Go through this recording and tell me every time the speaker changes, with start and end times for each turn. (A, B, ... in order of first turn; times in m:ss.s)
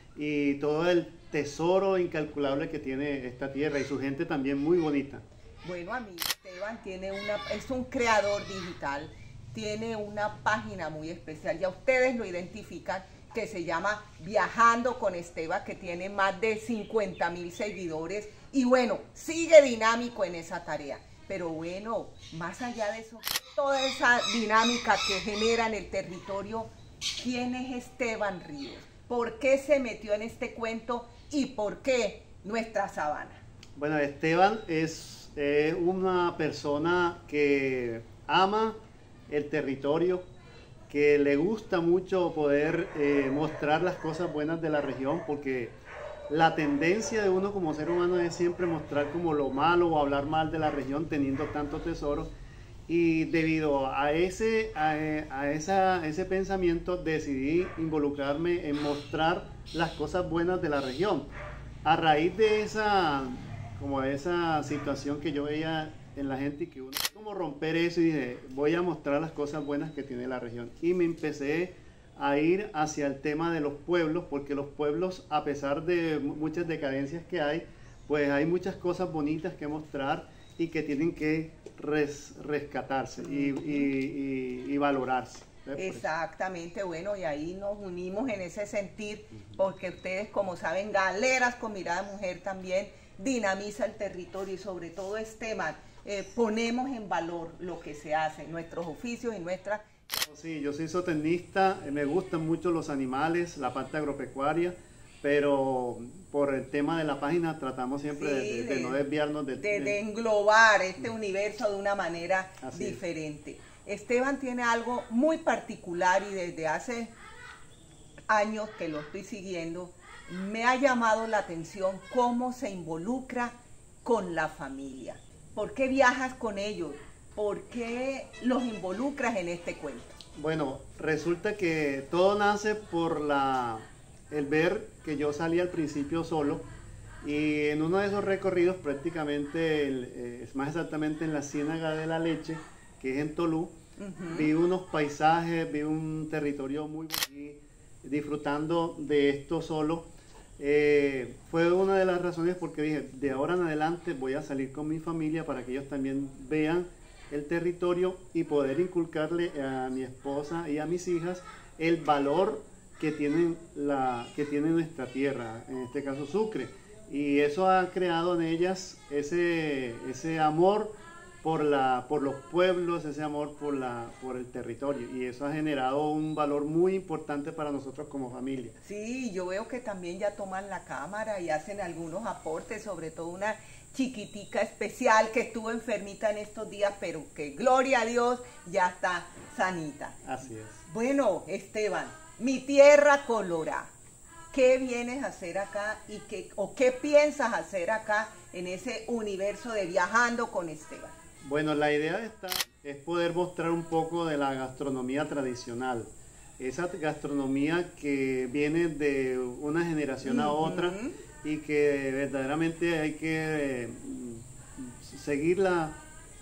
0:00.2-0:05.2 A
0:05.6-0:33.4 B
0:33.8-0:38.8 A
0:39.3-0:40.2 A
0:40.9-0:45.7 A
0:46.3-0:52.3 A
0:52.9-1:01.3 A
1:01.8-1:26.1 A
1:23.2-1:23.9 B
1:25.8-1:39.9 B
1:40.2-1:50.0 A
1:48.1-1:49.0 B
1:49.6-1:57.1 B
1:52.6-1:53.0 A
1:58.3-2:10.2 B
2:10.4-2:16.7 A
2:17.2-2:23.7 A
2:24.0-2:24.5 B
2:24.3-2:30.1 A
2:30.6-2:58.8 A
2:58.8-3:10.2 B
3:10.2-3:10.8 A
3:10.8-3:13.9 B
3:14.5-3:21.2 B
3:21.4-3:26.1 A
3:26.6-3:36.0 A
3:30.2-3:31.2 B